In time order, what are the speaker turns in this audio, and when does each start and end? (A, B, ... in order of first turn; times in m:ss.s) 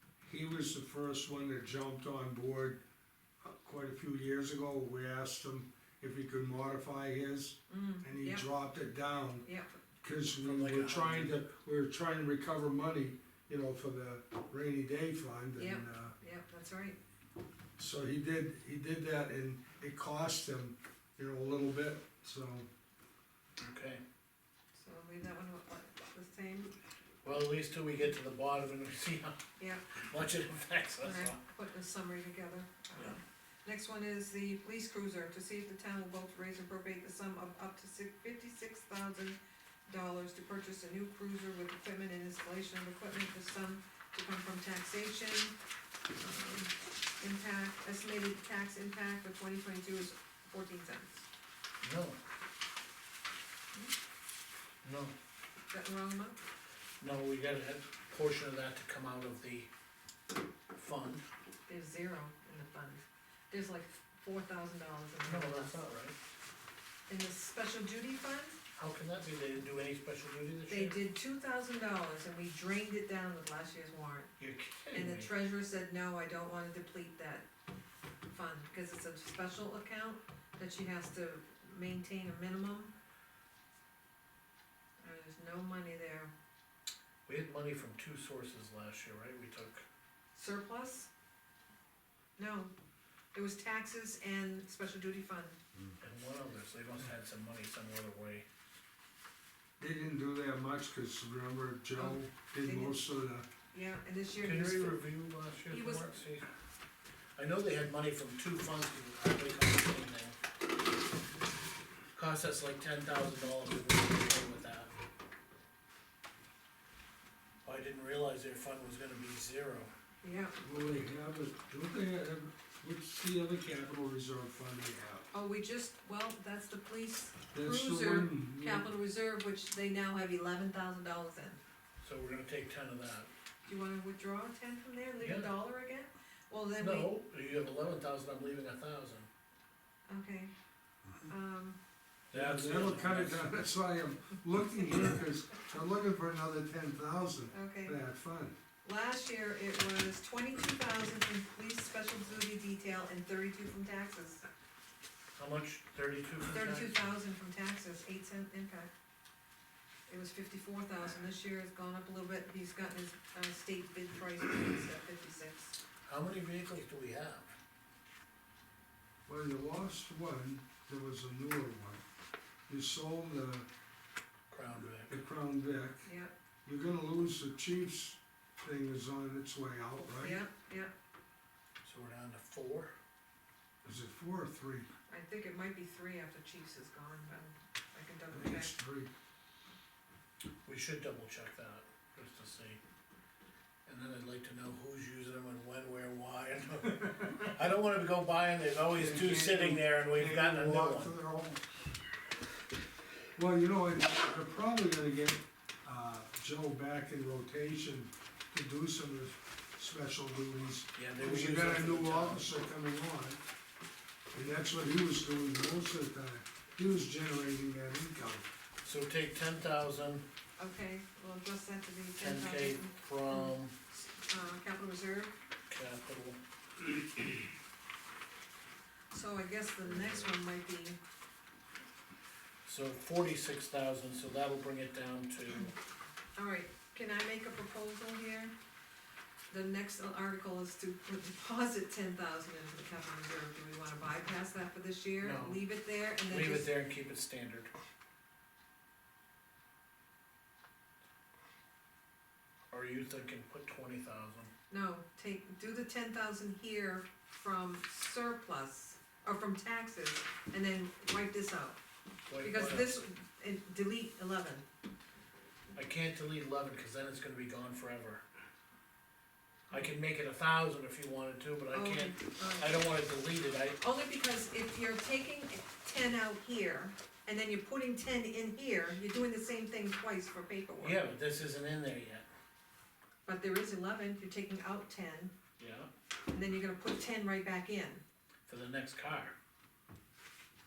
0:00.2-0:02.8 A
0:03.4-0:09.4 A
0:07.7-0:08.4 B
0:09.4-0:09.8 B
0:10.0-0:16.1 A
0:10.4-0:11.3 C
0:15.6-0:17.0 B
0:17.8-0:22.7 A
0:23.6-0:24.0 C
0:24.7-0:26.7 B
0:27.2-0:29.4 C
0:29.6-0:30.0 B
0:30.0-0:31.4 C
0:31.0-0:45.5 B
0:46.2-0:51.2 B
0:51.8-0:52.2 C
0:54.8-0:55.1 C
0:55.7-0:56.4 B
0:57.0-0:59.7 C
1:00.7-1:01.2 C
1:01.7-1:05.9 B
1:05.2-1:06.2 C
1:07.1-1:08.6 B
1:08.8-1:11.0 C
1:10.7-1:14.3 B
1:14.4-1:15.3 C
1:14.9-1:17.5 B
1:18.3-1:22.9 B
1:25.0-1:26.3 B
1:27.2-1:29.8 C
1:30.3-1:31.1 B
1:32.4-1:32.7 B
1:33.3-1:35.6 B
1:36.0-1:38.4 C
1:39.8-1:43.5 A
1:41.9-1:43.0 B
1:43.7-1:45.0 B
1:44.4-1:46.5 C
1:45.7-1:46.2 B
1:47.4-1:50.4 C
1:52.1-1:54.9 C
1:57.6-1:59.9 C
2:00.2-2:00.6 B
2:00.6-2:05.3 A
2:05.3-2:11.6 B
2:07.5-2:08.9 A
2:12.0-2:13.3 C
2:13.6-2:17.1 B
2:15.2-2:15.5 C
2:16.8-2:19.3 C
2:20.1-2:20.5 B
2:21.2-2:21.8 B
2:22.3-2:23.4 C
2:22.3-2:28.6 A
2:27.5-2:28.0 B
2:28.8-2:34.4 B
2:35.4-2:37.1 C
2:36.5-2:38.9 B
2:40.1-2:45.8 B
2:46.0-2:47.5 C
2:49.2-2:52.0 A
2:52.7-2:53.7 A
2:54.5-2:55.1 C
2:55.0-2:56.1 A
2:56.0-2:56.3 B
2:56.6-3:00.4 A
3:00.2-3:00.9 B
3:01.8-3:02.9 C
3:03.8-3:04.9 A
3:05.1-3:08.7 B
3:08.3-3:09.1 A
3:10.6-3:12.8 C
3:13.8-3:21.1 C
3:17.0-3:17.4 A
3:18.9-3:21.6 A
3:23.4-3:33.4 A
3:30.9-3:32.5 C
3:34.3-3:38.5 A
3:38.8-3:40.2 C
3:40.6-3:45.3 B
3:42.2-3:43.7 C
3:45.7-3:46.4 C
3:49.1-3:51.0 B
3:49.8-3:50.3 C
3:52.6-3:55.7 C
3:56.4-3:58.5 B
3:59.5-4:06.7 B
4:05.2-4:05.6 C
4:06.2-4:07.7 C
4:12.7-4:14.5 C
4:14.7-4:21.8 B
4:22.3-4:23.0 C
4:22.4-4:24.6 B
4:25.7-4:28.2 C
4:29.7-4:33.8 C
4:31.7-4:32.9 B
4:33.8-4:41.0 B
4:40.8-4:42.3 C
4:43.2-4:45.3 B
4:45.6-4:45.9 C
4:46.3-4:48.0 B
4:48.5-4:49.3 C